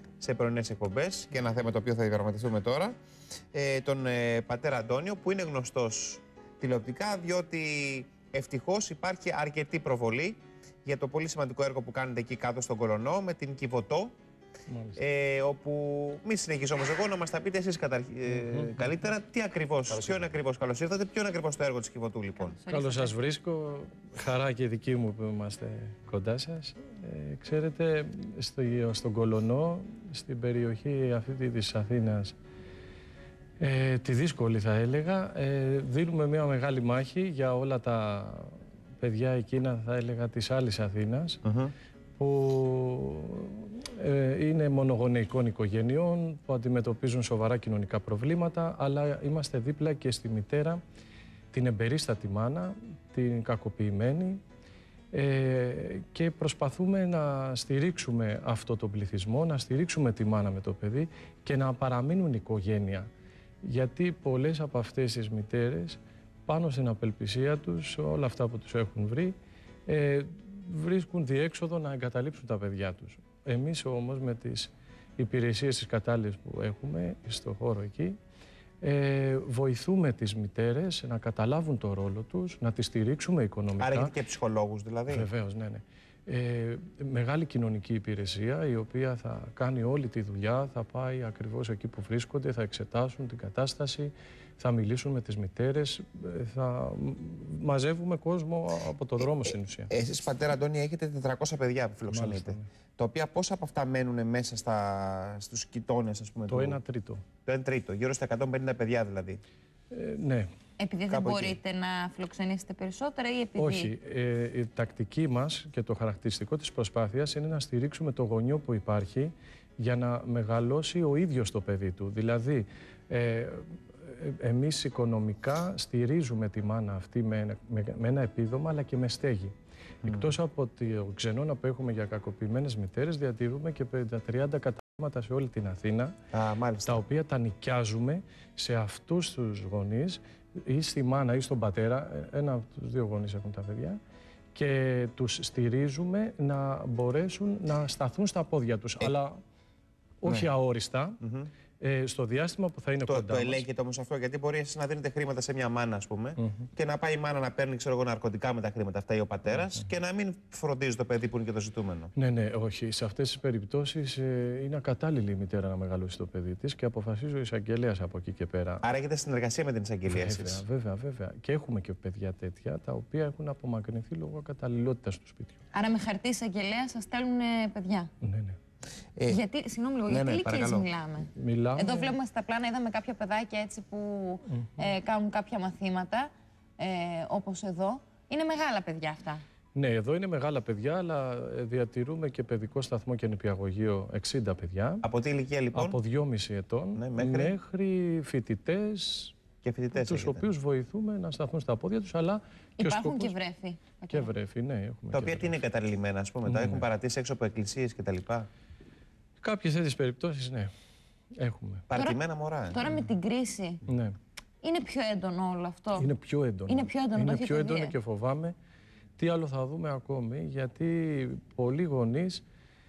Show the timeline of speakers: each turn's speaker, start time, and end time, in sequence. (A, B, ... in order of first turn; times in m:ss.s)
0:00.2-0:03.0 A
0:03.5-0:14.2 A
0:14.7-0:15.0 B
0:15.0-0:22.6 A
0:18.3-0:18.9 B
0:22.4-0:23.2 C
0:22.7-0:32.4 B
0:33.6-0:41.4 B
0:41.4-0:41.7 A
0:42.2-0:50.8 B
0:51.5-0:54.4 B
0:55.1-1:03.1 B
1:03.6-1:09.4 B
1:09.9-1:18.2 B
1:18.8-1:24.2 B
1:23.8-1:25.3 A
1:25.1-1:39.9 B
1:39.2-1:46.8 A
1:42.1-1:42.7 B
1:46.5-1:47.2 B
1:47.5-1:49.4 A
1:49.9-1:50.5 B
1:50.8-1:53.9 C
1:51.1-1:51.6 A
1:53.6-2:09.5 B
2:10.0-2:10.3 A
2:10.0-2:16.1 B
2:16.3-2:17.0 A
2:16.8-2:24.0 B
2:24.6-2:29.4 B
2:30.2-2:31.2 B
2:31.2-2:31.5 A
2:31.8-2:33.6 B
2:33.1-2:42.1 A
2:36.4-2:36.6 B
2:42.2-2:48.8 B
2:48.8-2:50.6 A
2:50.1-2:55.6 B
2:55.7-2:58.1 C
2:58.2-2:58.6 B
2:59.3-3:09.4 C
3:00.1-3:00.9 A
3:01.4-3:02.2 B
3:09.8-3:15.1 B
3:15.0-3:16.0 A
3:15.7-3:19.4 B
3:17.0-3:17.5 A
3:19.6-3:20.5 A
3:19.9-3:23.4 B
3:22.8-3:24.3 C
3:24.1-3:25.6 B
3:25.1-3:28.5 A
3:26.5-3:26.9 B
3:29.4-3:30.7 B
3:31.4-3:31.9 B
3:31.9-3:32.8 A
3:31.9-3:33.8 C
3:33.9-3:34.2 B
3:34.6-3:36.1 C
3:36.0-3:38.5 B
3:36.7-3:37.9 C
3:39.2-3:42.4 B